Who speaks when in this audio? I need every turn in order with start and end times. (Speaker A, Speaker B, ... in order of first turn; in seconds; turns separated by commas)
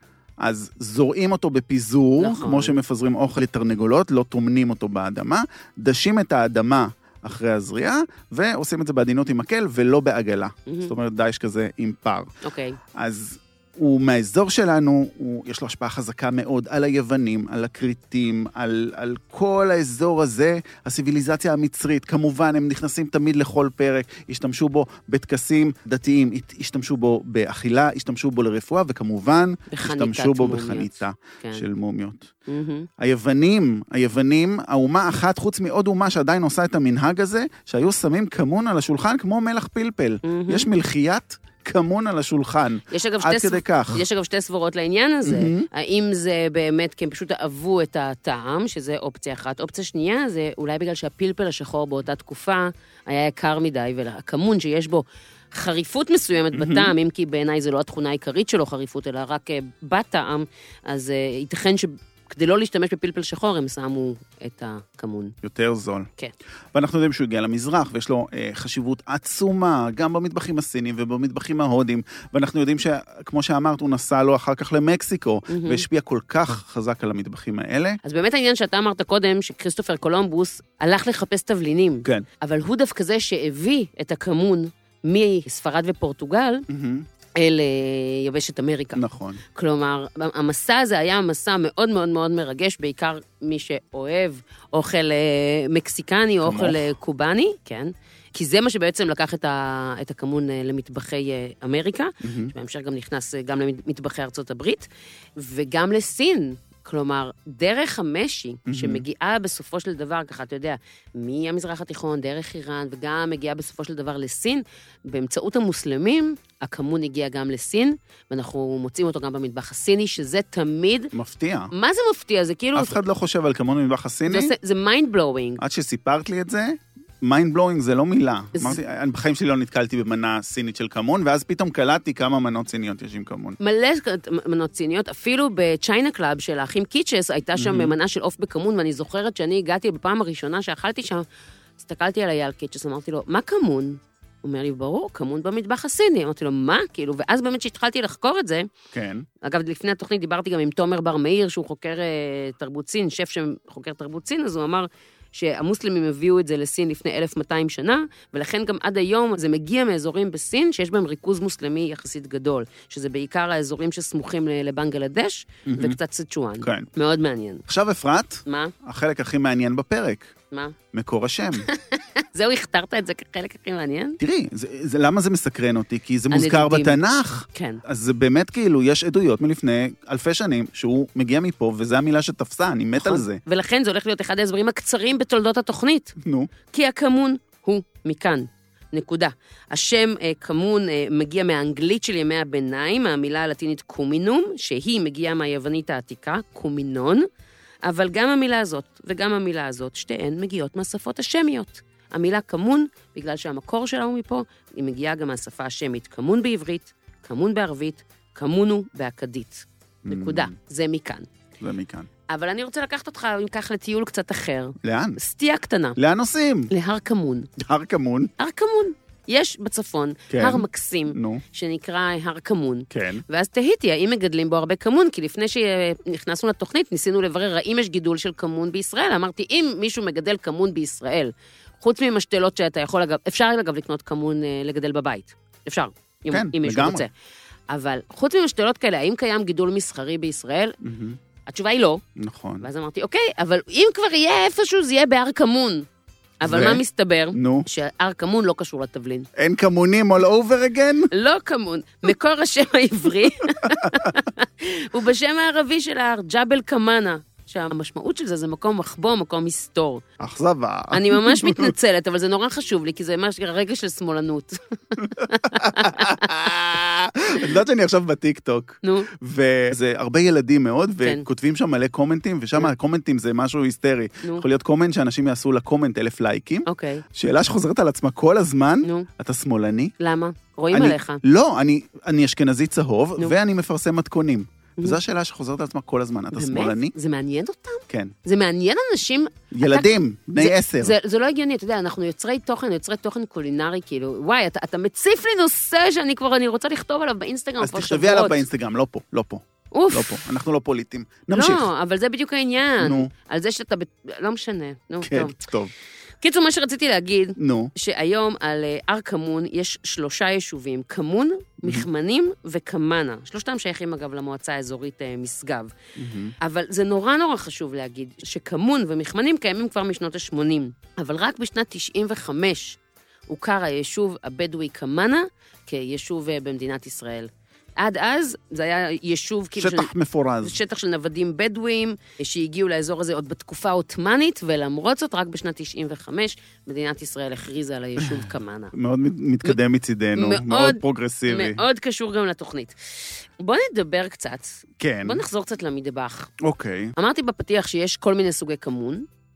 Speaker A: 0.4-12.3, Speaker B: 2.2-2.8, Speaker B: 10.7-10.9, Speaker B: 12.4-12.8, Speaker A: 12.9-32.3, Speaker B: 29.7-31.6, Speaker B: 32.5-32.9, Speaker A: 33.0-44.0, Speaker B: 40.2-40.7, Speaker B: 42.9-65.3, Speaker A: 45.2-45.7, Speaker A: 56.5-56.9, Speaker A: 65.4-66.1, Speaker A: 66.7-78.0, Speaker B: 75.5-75.8, Speaker B: 78.0-86.7, Speaker A: 86.7-87.0, Speaker B: 87.3-89.0, Speaker A: 89.0-89.4, Speaker B: 89.5-121.1, Speaker A: 96.4-96.9, Speaker A: 102.2-102.5, Speaker A: 108.7-109.0, Speaker A: 121.1-121.7, Speaker B: 121.7-123.0, Speaker A: 122.7-124.5, Speaker B: 124.3-125.6, Speaker A: 125.6-133.6, Speaker B: 133.6-141.2, Speaker A: 137.6-137.9, Speaker B: 141.8-148.7, Speaker A: 148.9-149.2, Speaker B: 149.4-167.6, Speaker A: 165.7-166.0, Speaker A: 166.6-166.9, Speaker A: 167.7-170.3, Speaker B: 168.4-168.7, Speaker A: 170.9-171.7, Speaker B: 171.6-174.2, Speaker A: 174.2-183.4, Speaker B: 176.3-177.0, Speaker B: 177.5-177.8, Speaker B: 183.0-186.2, Speaker A: 186.2-186.5, Speaker B: 186.7-197.3, Speaker B: 197.8-211.3, Speaker A: 210.0-210.5, Speaker A: 211.6-212.1, Speaker B: 212.3-216.0, Speaker A: 214.8-215.2, Speaker A: 216.0-216.7, Speaker B: 216.7-217.5, Speaker A: 217.6-218.3, Speaker B: 218.4-237.1, Speaker A: 220.3-221.4, Speaker A: 222.9-223.2, Speaker A: 236.3-237.0, Speaker B: 237.7-240.8, Speaker A: 240.8-241.2, Speaker B: 241.5-242.0, Speaker A: 242.2-242.7, Speaker B: 242.6-245.8, Speaker B: 246.4-249.3, Speaker A: 246.4-246.8, Speaker A: 247.3-247.7, Speaker A: 249.3-251.1, Speaker B: 251.1-260.0, Speaker A: 253.6-254.1, Speaker A: 260.2-261.7, Speaker B: 260.9-266.3, Speaker A: 265.0-279.9, Speaker B: 268.8-269.1, Speaker B: 276.6-277.0, Speaker B: 280.0-281.2, Speaker A: 280.7-286.9, Speaker B: 286.3-298.4, Speaker A: 287.9-288.1, Speaker A: 289.5-290.9, Speaker A: 297.6-301.6, Speaker B: 299.7-300.2, Speaker B: 301.3-305.3, Speaker A: 302.8-303.1, Speaker A: 305.0-305.7, Speaker B: 306.2-315.7, Speaker A: 307.4-307.7, Speaker A: 316.0-316.3, Speaker B: 316.4-322.8, Speaker B: 323.3-329.9, Speaker A: 329.6-330.6, Speaker B: 330.4-338.7, Speaker A: 338.0-341.6, Speaker B: 340.1-346.3, Speaker A: 344.8-345.2, Speaker A: 346.4-346.9, Speaker B: 346.9-349.1